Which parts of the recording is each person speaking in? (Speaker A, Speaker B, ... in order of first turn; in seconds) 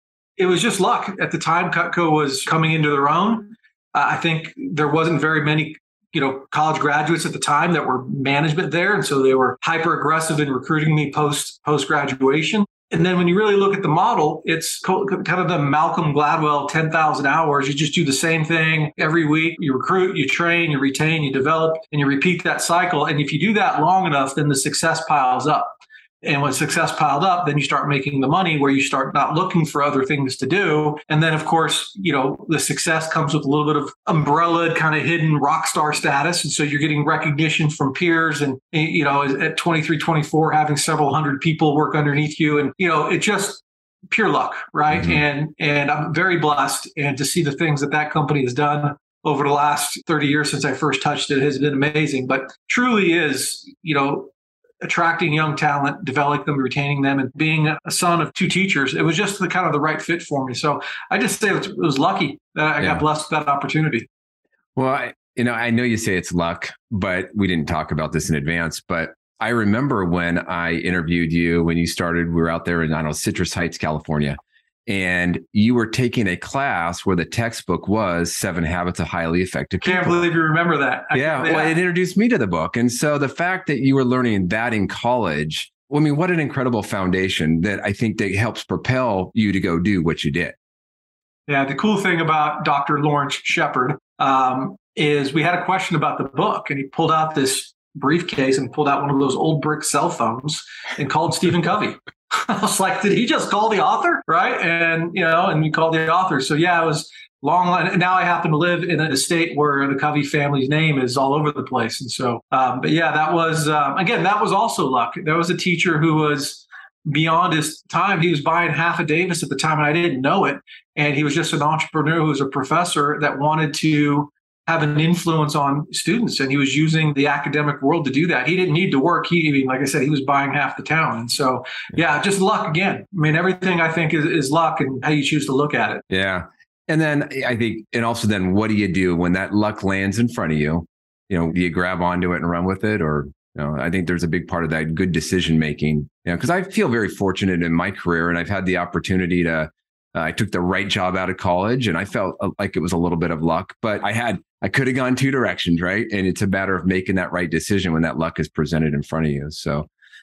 Speaker A: 0.4-54.3, 54.8-64.1, 79.8-81.7, 91.5-136.0
Speaker B: 44.9-45.2, 64.8-80.2, 81.1-90.5, 136.1-159.9